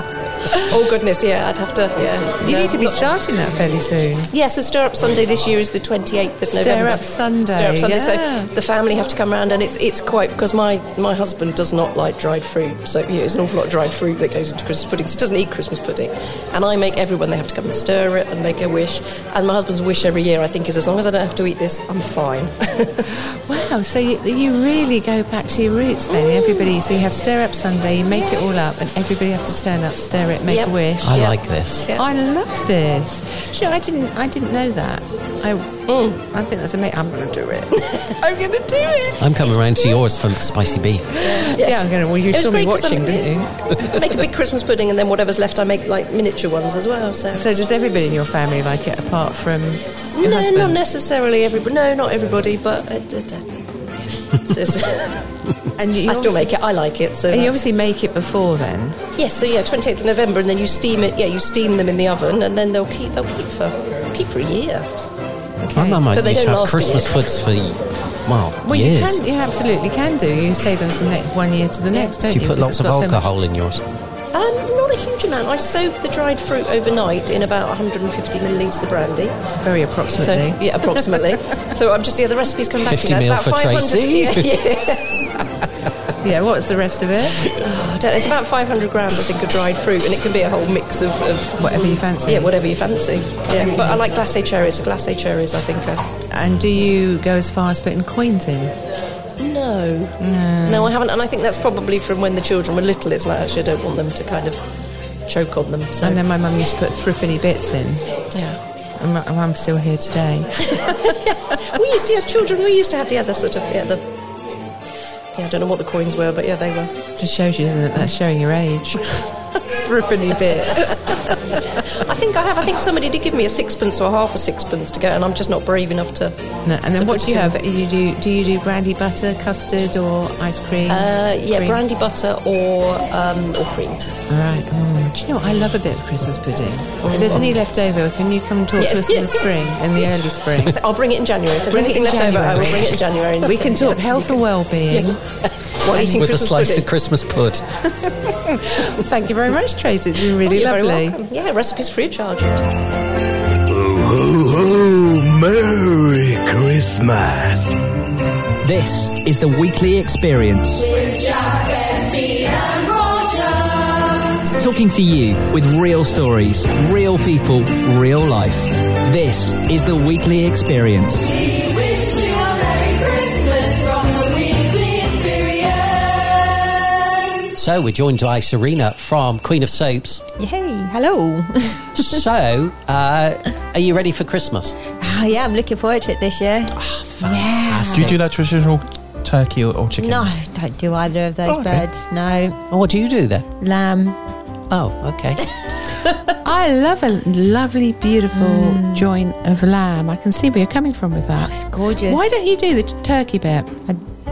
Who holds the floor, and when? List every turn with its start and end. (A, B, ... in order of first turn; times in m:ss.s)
0:00.5-0:03.1 A
0:02.4-0:04.3 B
0:04.3-0:23.1 A
0:06.5-0:08.5 B
0:23.1-0:31.3 B
0:26.1-0:26.7 A
0:30.5-0:32.0 A
0:31.0-0:31.9 C
0:31.9-0:40.0 B
0:35.9-0:36.2 A
0:39.2-0:41.2 C
0:41.2-0:47.7 A
0:41.3-0:43.8 B
0:47.3-0:50.8 B
0:50.2-0:55.3 A
0:55.8-0:56.6 B
0:56.0-0:57.6 A
0:57.3-0:59.0 B
0:59.2-1:04.9 A
1:05.6-1:06.0 B
1:05.8-1:09.2 C
1:06.1-1:07.4 A
1:08.6-1:13.3 B
1:12.2-1:13.8 C
1:14.3-1:19.4 A
1:19.6-1:21.2 B
1:20.2-1:25.2 A
1:22.9-1:24.6 C
1:26.2-1:27.4 B
1:27.5-1:36.1 A
1:31.6-1:32.5 B
1:33.5-1:34.0 B
1:36.3-1:38.8 B
1:39.4-1:44.6 A
1:40.2-1:41.0 B
1:45.3-1:46.2 A
1:46.0-1:48.1 B
1:49.0-1:50.9 B
1:51.3-1:54.1 A
1:55.4-1:57.0 A
1:57.2-1:59.1 B
1:59.7-2:01.3 B
2:01.9-2:06.4 A
2:06.6-2:11.8 B
2:07.0-2:07.6 A
2:10.9-2:14.0 A
2:14.3-2:20.8 B
2:17.0-2:17.6 A
2:18.8-2:26.9 A
2:21.7-2:25.2 B
2:25.9-2:26.2 B
2:26.0-2:28.2 C
2:28.4-2:31.2 B
2:30.4-2:32.7 A
2:33.7-2:37.7 D
2:38.6-2:41.3 E
2:44.6-2:51.4 E
2:57.6-3:00.2 C
3:00.4-3:02.2 F
3:02.0-3:04.7 C
3:05.0-3:08.1 F
3:06.8-3:08.2 C
3:07.9-3:10.3 G
3:10.0-3:12.6 F
3:11.5-3:11.9 G
3:12.7-3:13.5 C
3:13.6-3:14.2 F
3:14.7-3:15.4 C
3:16.4-3:21.5 B
3:18.3-3:19.1 F
3:21.4-3:22.3 F
3:22.0-3:23.8 B